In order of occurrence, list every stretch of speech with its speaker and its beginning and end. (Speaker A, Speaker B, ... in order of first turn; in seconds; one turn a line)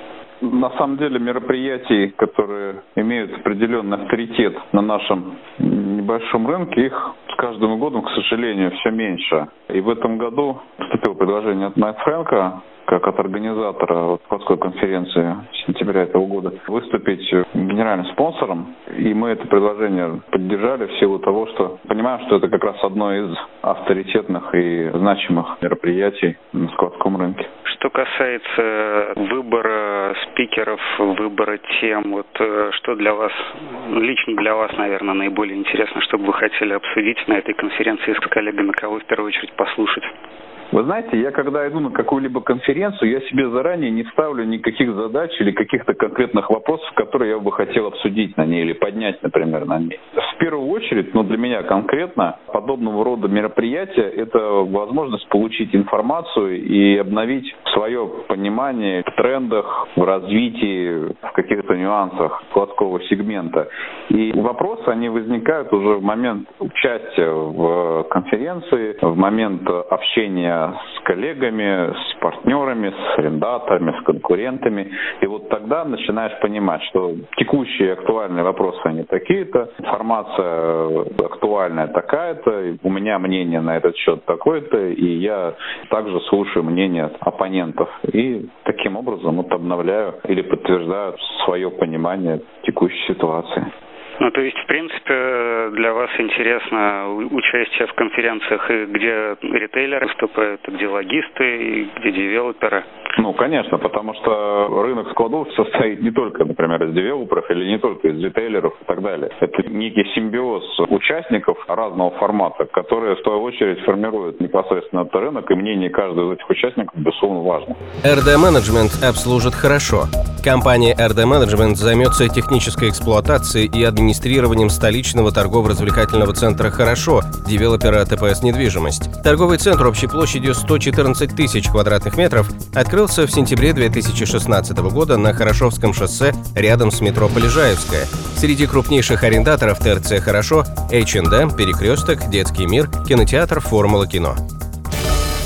Speaker A: 0.4-27.5
Speaker B: 27.6-40.1
Speaker A: 40.7-93.7
Speaker B: 94.2-102.9
Speaker A: 103.2-117.8
Speaker C: 118.0-144.4